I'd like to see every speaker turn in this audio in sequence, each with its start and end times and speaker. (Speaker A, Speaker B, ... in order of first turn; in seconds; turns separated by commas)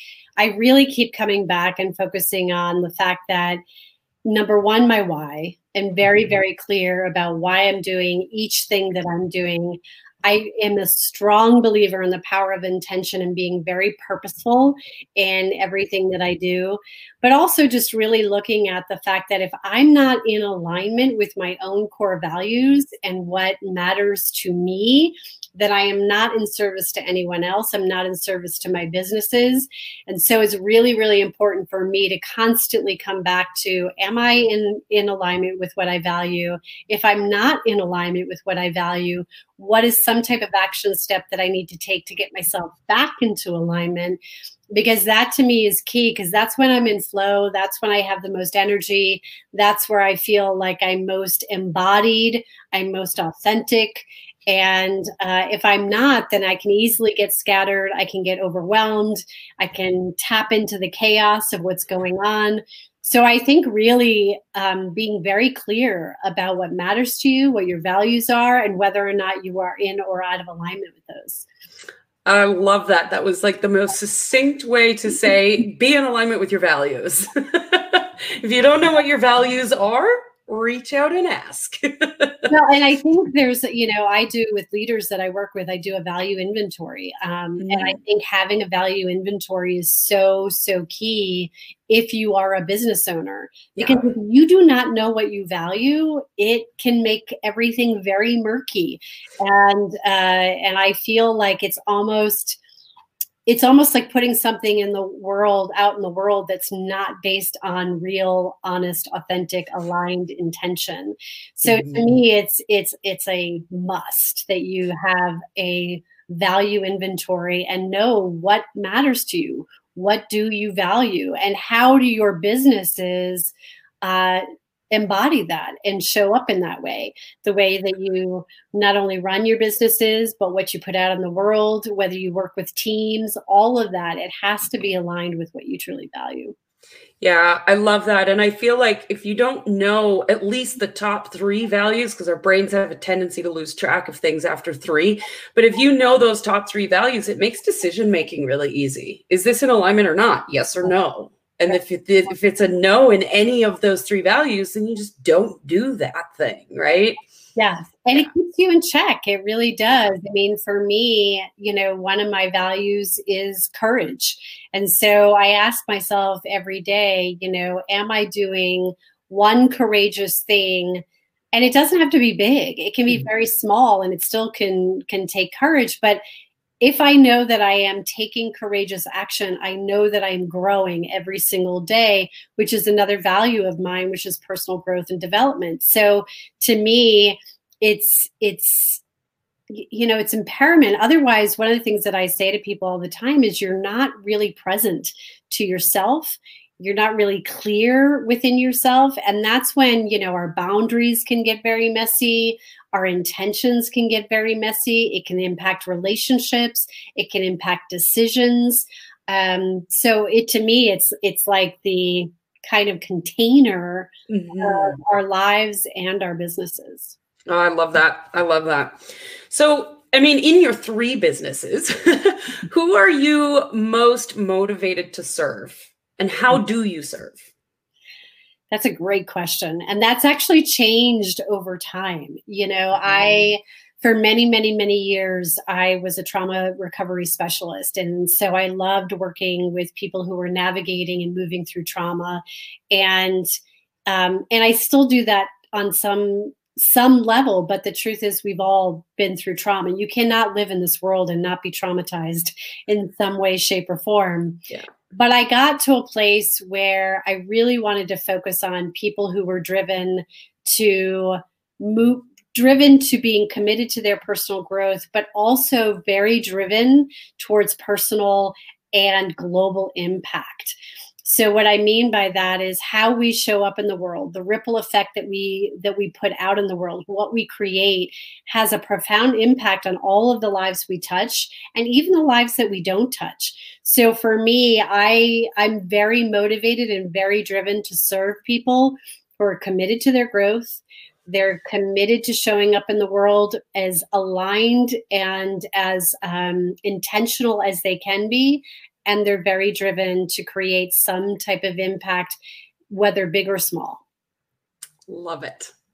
Speaker A: 0.4-3.6, Speaker A: 4.2-44.2, Speaker A: 44.7-71.5, Speaker B: 72.2-82.5, Speaker A: 82.5-102.6, Speaker B: 87.6-88.0, Speaker B: 93.7-94.1, Speaker A: 103.5-136.5, Speaker B: 111.6-112.2, Speaker B: 137.2-157.2, Speaker A: 157.6-171.0, Speaker A: 171.5-176.2, Speaker A: 176.8-189.0, Speaker A: 189.7-217.1, Speaker B: 214.3-215.0, Speaker B: 217.5-219.0, Speaker B: 219.5-227.4, Speaker A: 228.7-243.4, Speaker B: 233.0-233.4, Speaker A: 244.1-254.6, Speaker A: 255.1-302.4, Speaker A: 302.9-304.0, Speaker B: 305.1-305.7